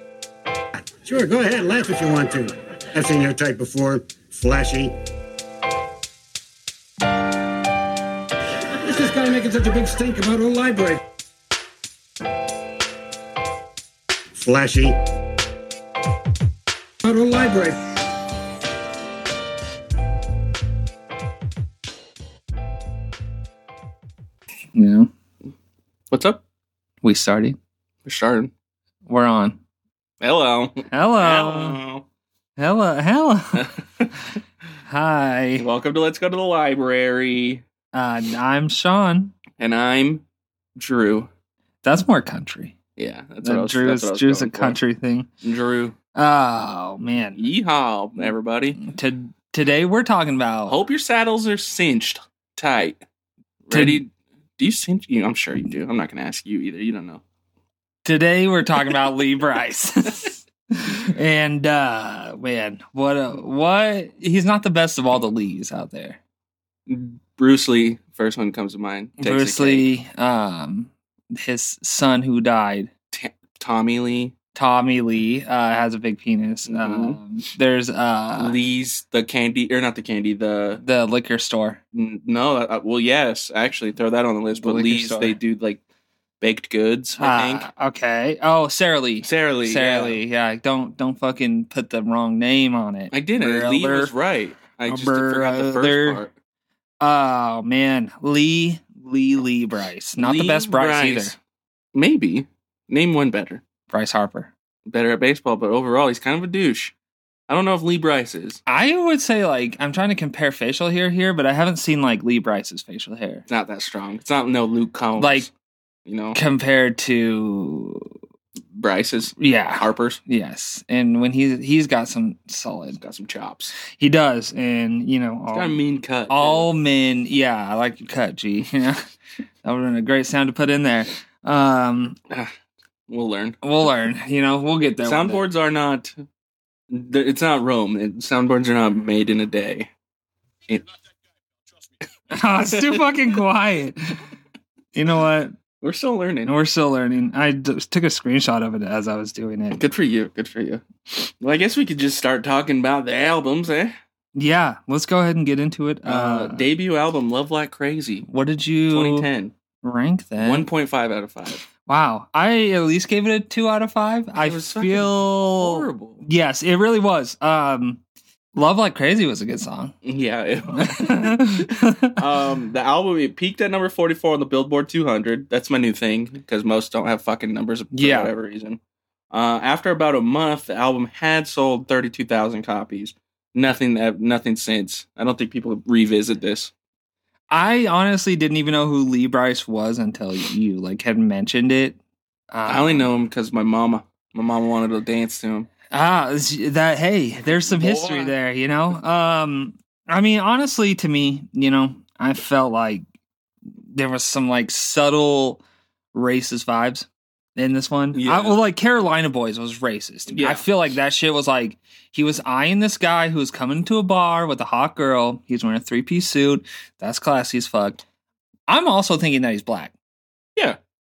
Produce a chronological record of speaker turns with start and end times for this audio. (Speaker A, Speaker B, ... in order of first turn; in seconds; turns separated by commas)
Speaker A: 1.0-5.0, Speaker A: 8.8-11.0, Speaker A: 14.3-15.0, Speaker A: 17.0-17.8, Speaker B: 24.7-25.1, Speaker C: 26.1-26.4, Speaker B: 27.0-27.6, Speaker C: 28.1-28.5, Speaker B: 29.1-29.6, Speaker C: 30.2-32.0, Speaker B: 30.9-31.8, Speaker B: 32.6-33.7, Speaker C: 33.5-34.1, Speaker B: 34.9-35.7, Speaker C: 35.6-37.6, Speaker B: 37.9-39.3, Speaker C: 39.6-40.2, Speaker C: 40.8-41.3, Speaker B: 41.8-42.8, Speaker C: 43.0-44.8, Speaker B: 43.4-45.3, Speaker C: 45.4-46.0, Speaker B: 46.1-47.4, Speaker C: 47.4-48.8, Speaker B: 48.8-50.8, Speaker C: 50.7-53.0, Speaker C: 53.7-57.2, Speaker B: 53.7-54.0, Speaker B: 58.0-66.2, Speaker C: 66.9-69.9, Speaker B: 69.2-72.9, Speaker C: 73.1-74.3, Speaker B: 74.5-78.6, Speaker C: 76.7-77.2, Speaker C: 78.4-80.8, Speaker B: 80.8-81.8, Speaker C: 81.9-85.8, Speaker B: 84.6-85.4, Speaker C: 86.4-87.7, Speaker B: 87.2-94.1, Speaker C: 89.2-90.2, Speaker C: 93.1-96.3, Speaker B: 94.9-96.2, Speaker B: 97.0-101.3, Speaker C: 100.2-101.3, Speaker C: 101.9-103.6, Speaker B: 103.9-104.5, Speaker C: 104.9-106.9, Speaker C: 107.5-108.6, Speaker B: 108.7-113.5, Speaker C: 113.5-115.5, Speaker B: 115.2-115.5, Speaker C: 116.1-116.4, Speaker B: 116.3-118.1, Speaker C: 118.8-120.2, Speaker B: 119.4-123.0, Speaker C: 123.0-123.7, Speaker B: 123.9-129.0, Speaker C: 125.5-126.7, Speaker B: 129.6-132.2, Speaker C: 133.1-133.6, Speaker B: 133.6-135.4, Speaker C: 135.1-136.2, Speaker C: 136.9-139.9, Speaker B: 142.3-144.2, Speaker C: 142.7-143.0, Speaker B: 144.9-145.6, Speaker C: 145.8-146.5, Speaker B: 146.5-149.8, Speaker C: 149.7-153.9, Speaker B: 154.4-156.7, Speaker C: 156.1-158.3, Speaker B: 158.3-159.3, Speaker C: 158.9-159.5, Speaker B: 159.8-160.7, Speaker C: 160.4-161.6, Speaker B: 161.9-168.0, Speaker C: 164.4-166.2, Speaker B: 168.6-169.9, Speaker C: 170.1-178.8, Speaker B: 170.7-172.2, Speaker B: 177.9-178.3, Speaker C: 179.3-186.7, Speaker B: 187.5-192.0, Speaker B: 192.5-193.1, Speaker C: 192.7-195.7, Speaker B: 195.9-203.0, Speaker C: 197.5-198.3, Speaker B: 203.9-205.6, Speaker B: 206.1-218.0, Speaker C: 208.1-208.6, Speaker C: 210.3-210.7, Speaker B: 218.7-219.9